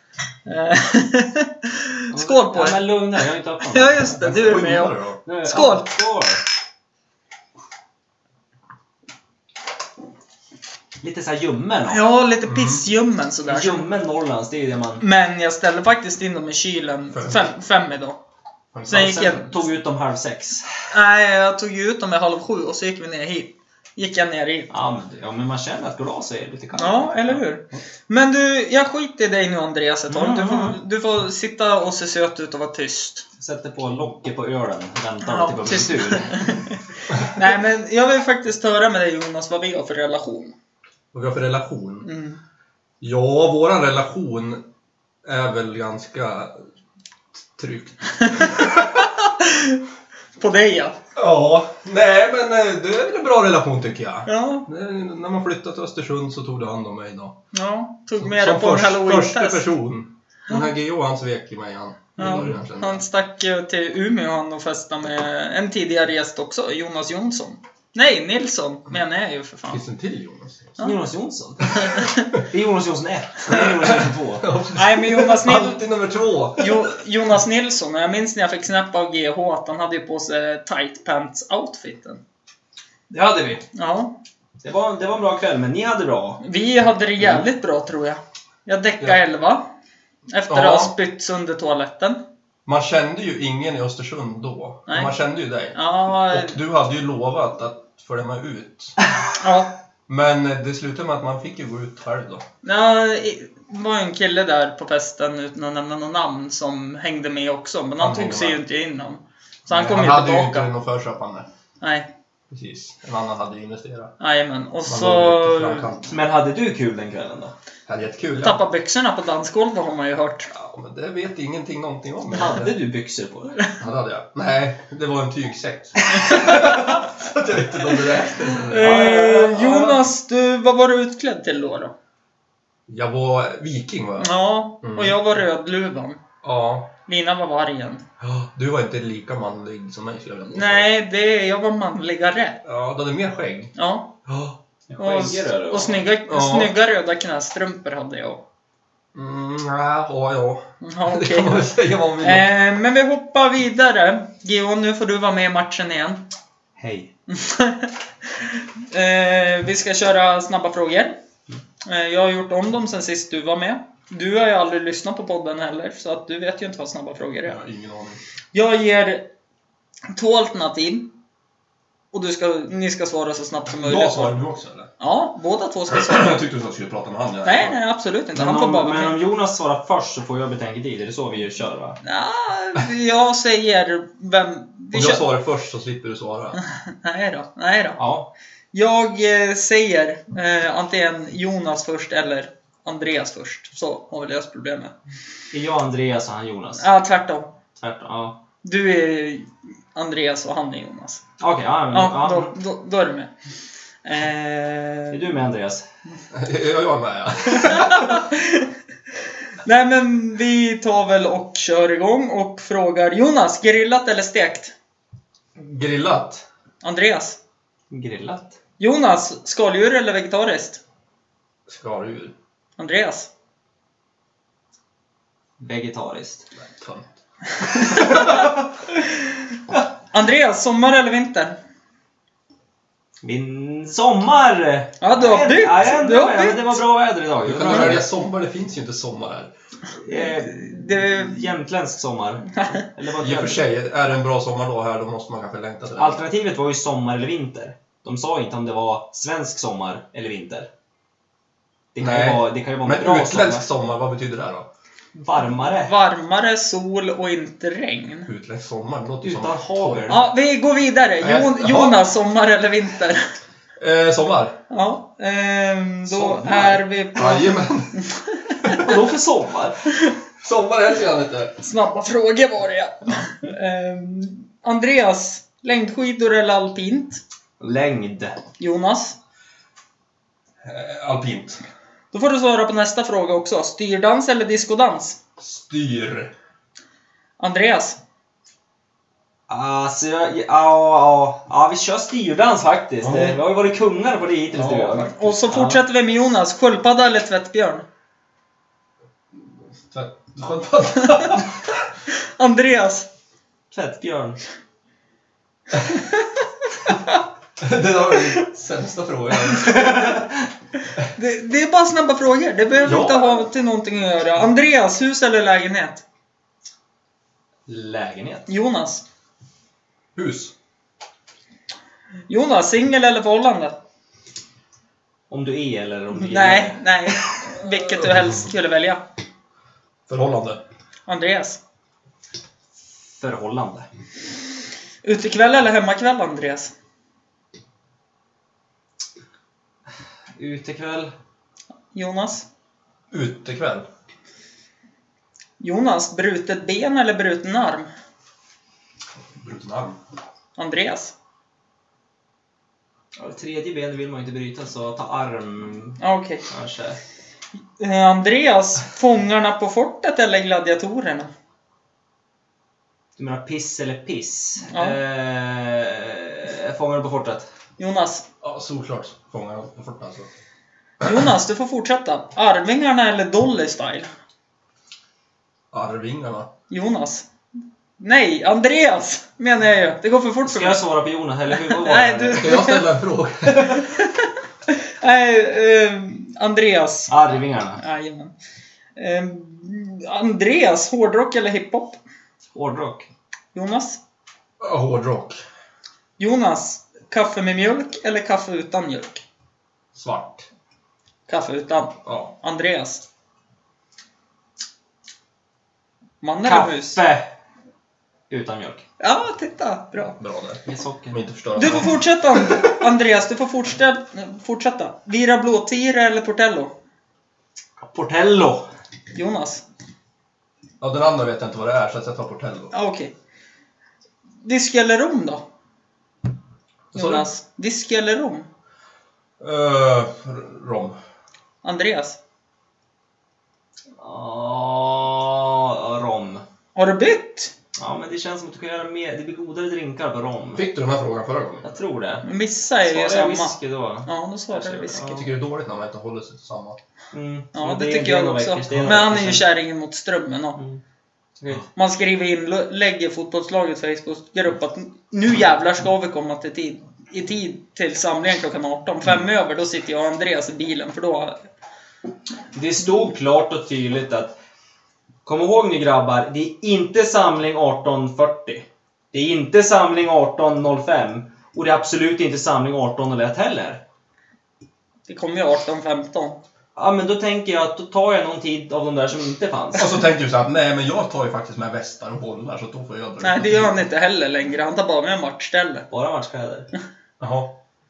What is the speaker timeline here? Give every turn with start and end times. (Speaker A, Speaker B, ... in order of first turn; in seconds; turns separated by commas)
Speaker A: 0.5-6.0, Speaker B: 2.1-4.2, Speaker C: 4.2-5.2, Speaker B: 5.2-6.4, Speaker B: 11.0-12.0, Speaker A: 11.9-13.9, Speaker C: 12.4-12.8, Speaker B: 13.4-15.0, Speaker A: 15.0-18.2, Speaker C: 17.1-17.4, Speaker C: 18.7-19.2, Speaker A: 18.9-19.7, Speaker B: 18.9-20.7, Speaker A: 20.9-24.7, Speaker B: 24.7-27.4, Speaker A: 26.7-33.2, Speaker B: 30.1-30.8, Speaker B: 33.4-36.5, Speaker A: 35.2-40.5, Speaker C: 41.1-42.1, Speaker A: 42.0-42.4, Speaker C: 43.0-44.6, Speaker C: 45.2-46.6, Speaker C: 47.5-48.8, Speaker A: 48.2-49.8, Speaker A: 50.4-51.0, Speaker C: 51.1-57.4, Speaker A: 54.3-54.6, Speaker A: 57.5-59.7, Speaker C: 58.2-63.0, Speaker A: 62.2-69.8, Speaker C: 69.7-70.8, Speaker B: 70.8-74.5, Speaker A: 71.8-72.3, Speaker C: 73.5-76.8, Speaker A: 74.7-75.8, Speaker A: 76.6-82.2, Speaker B: 83.1-83.6, Speaker A: 83.7-84.1, Speaker B: 84.6-86.4, Speaker A: 86.4-89.7, Speaker A: 90.3-92.2, Speaker C: 90.5-90.9, Speaker C: 92.7-95.8, Speaker A: 94.9-95.1, Speaker A: 95.7-96.6, Speaker C: 96.3-99.0, Speaker A: 99.4-99.7, Speaker C: 100.1-102.4, Speaker A: 102.6-110.7, Speaker C: 108.0-108.6, Speaker C: 109.7-111.5, Speaker A: 111.8-112.1, Speaker C: 112.5-114.1, Speaker A: 114.2-115.9, Speaker C: 114.8-116.2, Speaker B: 116.1-117.5, Speaker C: 117.9-118.6, Speaker A: 118.4-120.5, Speaker C: 120.5-122.7, Speaker B: 122.3-123.6, Speaker C: 123.8-129.4, Speaker A: 126.3-126.8, Speaker A: 128.7-131.9, Speaker B: 128.8-129.9, Speaker C: 132.9-135.2, Speaker A: 134.2-136.2, Speaker C: 136.4-136.9, Speaker A: 137.1-138.0, Speaker C: 138.2-140.9, Speaker A: 140.5-142.6, Speaker C: 142.6-143.7, Speaker A: 143.7-144.1, Speaker C: 144.3-144.5, Speaker B: 144.9-146.1, Speaker A: 145.0-148.4, Speaker C: 146.3-146.7, Speaker C: 149.1-152.5, Speaker A: 150.8-156.2, Speaker B: 156.8-157.1, Speaker A: 157.3-161.2, Speaker A: 161.8-167.6, Speaker C: 167.5-168.2, Speaker A: 168.5-169.3, Speaker A: 170.1-171.1, Speaker A: 172.1-174.4, Speaker C: 173.8-174.9, Speaker A: 175.0-176.4, Speaker C: 175.9-177.8, Speaker A: 177.4-179.2, Speaker B: 178.3-182.0, Speaker A: 182.0-185.2, Speaker C: 184.9-186.6, Speaker A: 186.6-188.0, Speaker B: 188.0-188.3, Speaker A: 188.7-194.9, Speaker B: 195.5-196.9, Speaker A: 196.8-197.5, Speaker B: 197.8-198.4, Speaker A: 198.6-201.2, Speaker B: 201.4-202.5, Speaker A: 201.9-203.3, Speaker A: 204.0-205.2, Speaker B: 205.1-205.8, Speaker C: 206.3-208.2, Speaker A: 207.5-208.7, Speaker A: 209.6-214.7, Speaker C: 215.6-216.4, Speaker A: 216.8-217.4, Speaker B: 217.9-218.6, Speaker A: 218.8-220.8, Speaker C: 221.7-222.3, Speaker A: 222.8-223.3, Speaker B: 225.6-226.4, Speaker C: 226.6-228.6, Speaker A: 227.7-229.0, Speaker A: 230.1-231.6, Speaker B: 233.2-238.1, Speaker A: 235.0-236.8, Speaker C: 237.4-239.5, Speaker A: 237.7-237.9, Speaker B: 240.0-243.6, Speaker A: 240.1-241.4, Speaker A: 242.6-242.8, Speaker C: 243.2-246.2, Speaker B: 245.9-250.7, Speaker B: 251.9-253.7, Speaker C: 252.0-254.7, Speaker B: 255.1-255.9, Speaker A: 255.6-258.3, Speaker C: 258.3-260.2, Speaker B: 259.2-260.2, Speaker A: 260.1-263.3, Speaker C: 261.2-262.0, Speaker C: 263.8-264.6, Speaker A: 264.7-268.8, Speaker B: 266.1-266.8, Speaker C: 267.1-268.0, Speaker C: 268.6-269.0, Speaker B: 268.7-269.8, Speaker C: 270.4-271.6, Speaker A: 271.6-277.2, Speaker B: 277.6-278.4, Speaker A: 278.6-279.1, Speaker C: 280.6-281.6, Speaker A: 282.1-285.2, Speaker C: 285.4-286.3, Speaker A: 287.4-288.0, Speaker B: 289.5-295.8, Speaker C: 293.0-293.4, Speaker C: 294.5-295.1, Speaker A: 295.0-297.9, Speaker C: 299.3-301.6, Speaker A: 302.1-303.1, Speaker B: 303.7-304.4, Speaker A: 305.8-307.2, Speaker C: 307.6-310.3, Speaker A: 311.1-316.0, Speaker C: 312.8-313.3, Speaker B: 317.7-318.5, Speaker A: 318.5-319.0, Speaker C: 320.1-320.5, Speaker A: 322.3-323.8, Speaker B: 325.3-327.4, Speaker A: 326.2-329.0, Speaker C: 330.1-330.6, Speaker A: 331.1-331.6, Speaker B: 333.2-333.9, Speaker A: 335.0-336.7, Speaker B: 340.4-341.1, Speaker A: 341.9-342.4, Speaker C: 343.1-343.9, Speaker A: 345.6-347.9, Speaker C: 349.2-350.0, Speaker A: 350.6-351.1, Speaker B: 353.1-357.0, Speaker A: 356.0-356.4, Speaker A: 357.8-361.3, Speaker B: 363.2-367.5, Speaker A: 364.7-365.0, Speaker A: 367.8-368.2, Speaker C: 368.4-370.3, Speaker A: 371.0-374.1, Speaker C: 375.7-376.5, Speaker A: 376.7-377.2, Speaker A: 378.0-380.8, Speaker B: 380.4-382.6, Speaker A: 381.5-382.9, Speaker C: 382.3-383.8, Speaker A: 383.5-388.3, Speaker B: 387.1-387.8, Speaker A: 388.9-392.0, Speaker B: 392.5-393.1, Speaker A: 393.5-394.0, Speaker C: 394.6-395.4, Speaker A: 396.2-399.2, Speaker C: 399.9-400.5, Speaker A: 401.3-403.0, Speaker C: 402.0-402.3, Speaker A: 406.2-407.0, Speaker B: 406.4-407.3, Speaker B: 408.3-408.8, Speaker A: 409.0-410.2, Speaker C: 410.2-412.0, Speaker B: 410.6-411.2, Speaker A: 411.6-416.7, Speaker B: 417.8-418.7, Speaker A: 419.1-419.6, Speaker C: 420.8-422.7, Speaker A: 422.7-423.1, Speaker A: 424.4-425.4, Speaker C: 426.9-427.3, Speaker A: 426.9-428.5, Speaker C: 429.4-431.0, Speaker A: 431.6-432.2, Speaker B: 434.0-436.4, Speaker A: 436.7-437.5, Speaker B: 437.8-440.6, Speaker C: 440.5-441.8, Speaker B: 441.6-442.3, Speaker A: 442.2-445.2, Speaker B: 442.8-445.2, Speaker C: 445.1-446.8, Speaker B: 447.1-449.4, Speaker A: 447.5-450.6, Speaker B: 451.4-451.6, Speaker A: 451.7-461.4, Speaker B: 462.5-464.3, Speaker B: 465.2-473.8, Speaker A: 475.1-476.4, Speaker B: 476.8-479.9, Speaker C: 479.7-483.8, Speaker A: 483.2-485.9, Speaker B: 485.9-486.7, Speaker C: 487.2-487.5